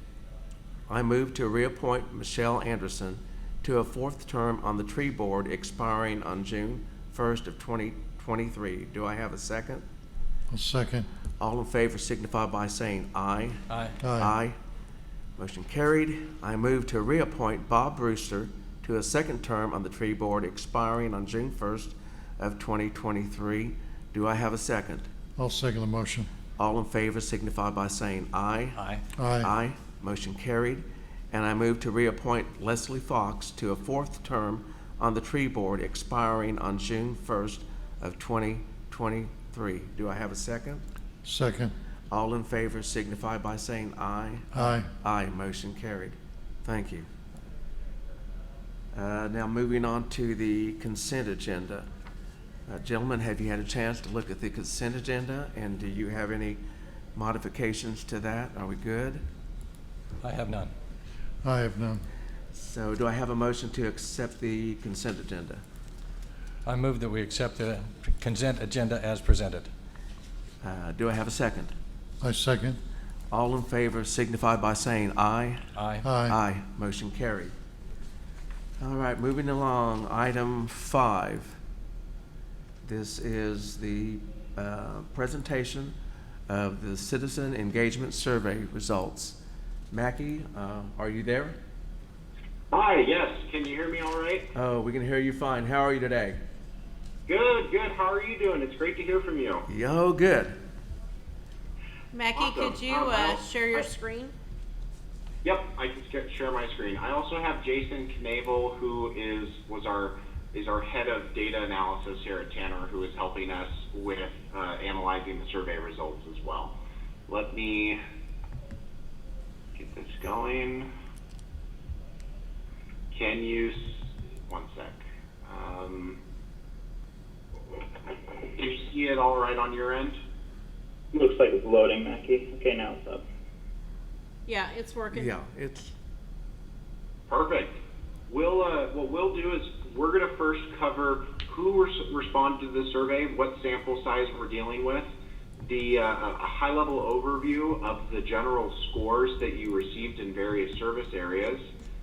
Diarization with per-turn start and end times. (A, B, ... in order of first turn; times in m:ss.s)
0:00.9-0:09.8 A
0:10.5-0:11.1 B
0:11.4-0:13.6 A
0:13.7-0:14.0 C
0:14.0-0:14.3 B
0:14.2-0:14.6 A
0:15.4-0:25.1 A
0:25.4-0:26.3 B
0:26.6-0:28.8 A
0:28.8-0:29.0 C
0:29.1-0:29.5 B
0:29.4-0:40.8 A
0:41.2-0:41.7 B
0:42.1-0:47.1 A
0:44.5-0:44.9 B
0:48.9-0:51.8 A
0:52.7-0:56.6 A
0:57.1-0:59.2 A
1:00.2-1:00.7 C
1:01.4-1:02.0 B
1:02.5-1:05.6 A
1:06.6-1:09.7 C
1:10.6-1:11.7 A
1:12.2-1:12.8 B
1:13.3-1:15.7 A
1:15.8-1:16.0 C
1:16.0-1:16.4 B
1:16.2-1:17.5 A
1:18.8-1:21.6 A
1:22.8-1:25.9 A
1:26.5-1:29.4 A
1:29.9-1:31.6 A
1:32.7-1:34.5 D
1:34.5-1:36.4 A
1:37.3-1:39.6 D
1:39.7-1:40.5 A
1:42.1-1:44.3 E
1:42.3-1:43.9 D
1:45.4-1:56.8 D
1:57.3-1:58.0 D
1:59.8-2:00.9 D
2:03.1-2:06.2 D
2:08.5-2:10.2 D
2:11.1-2:13.2 F
2:14.5-2:15.3 E
2:15.1-2:15.9 A
2:17.3-2:17.8 D
2:18.3-2:25.1 D
2:25.6-2:31.7 D